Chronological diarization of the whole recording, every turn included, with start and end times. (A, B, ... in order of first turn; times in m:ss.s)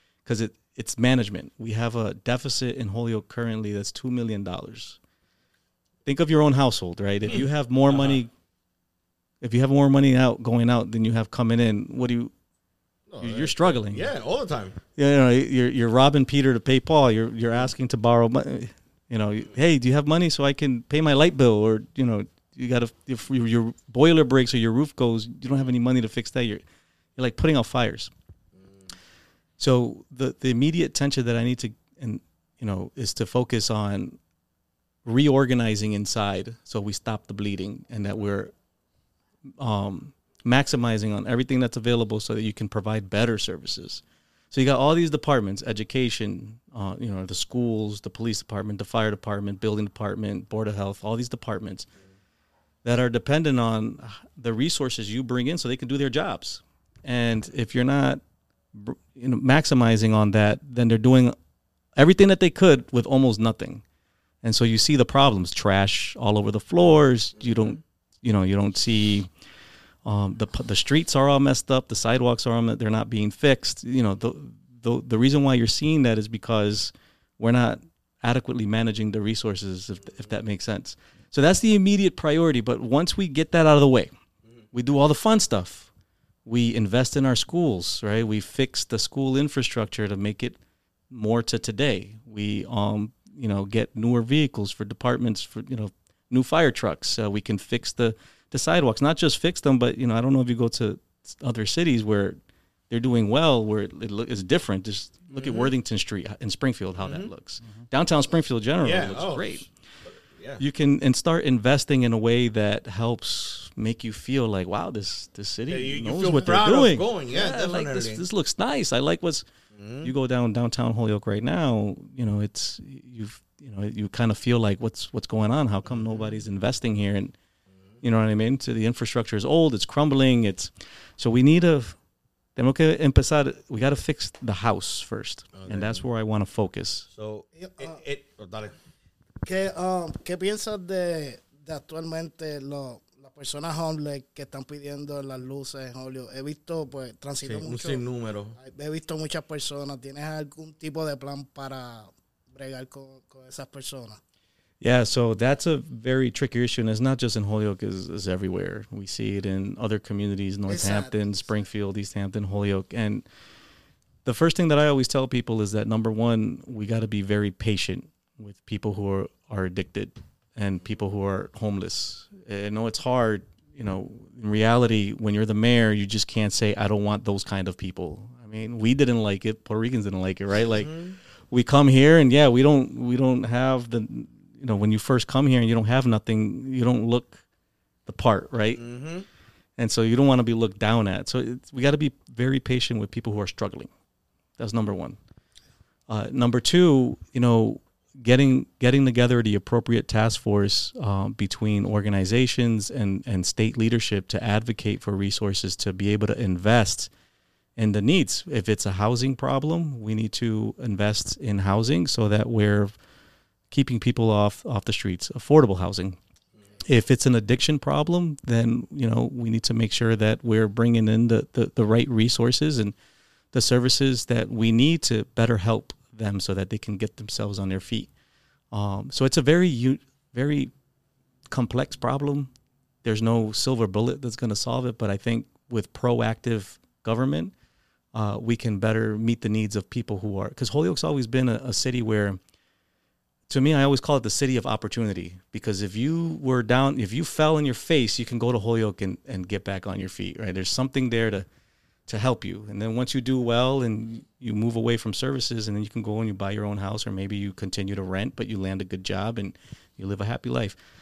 0:00.2-0:05.0 A
0:06.0-0:08.3 A
0:07.9-0:08.2 B
0:09.4-0:12.3 A
0:13.1-0:14.8 B
0:13.2-0:14.1 A
0:15.0-0:26.6 A
0:27.2-0:28.1 A
0:29.6-0:34.2 A
0:35.0-0:38.5 A
0:39.6-0:51.9 A
0:52.8-0:58.2 A
0:58.7-1:01.4 A
1:02.0-1:03.8 A
1:04.4-1:09.3 A
1:07.4-1:07.8 B
1:10.0-1:24.1 A
1:24.7-1:25.9 A
1:26.5-1:30.6 A
1:31.1-1:42.4 A
1:42.9-1:49.7 A
1:45.3-1:45.7 B
1:47.0-1:47.3 B
1:48.8-1:50.6 B
1:50.6-1:59.5 A
1:55.7-1:58.2 B
1:59.8-2:00.1 B
2:00.0-2:07.4 A
2:05.9-2:06.4 B
2:08.0-2:12.0 A
2:12.6-2:17.1 A
2:15.6-2:16.0 B
2:17.2-2:18.7 B
2:17.6-2:17.9 C
2:19.4-2:28.0 C
2:27.5-2:28.6 B
2:28.6-2:34.2 C
2:34.8-2:43.2 A
2:40.7-2:41.4 C
2:44.2-3:00.9 A
3:00.7-3:01.2 B
3:01.5-3:07.4 A
3:08.1-3:08.8 A
3:08.8-3:09.3 B
3:09.8-3:13.9 A
3:14.6-3:15.2 A
3:16.1-3:27.1 A
3:27.8-3:33.0 A
3:33.7-3:36.2 A
3:36.8-3:42.9 A
3:43.5-3:48.1 A
3:48.7-3:50.7 A
3:51.5-3:52.5 A
3:53.0-3:57.5 A
3:58.1-4:02.4 A
4:03.5-4:11.5 A
4:12.1-4:20.8 A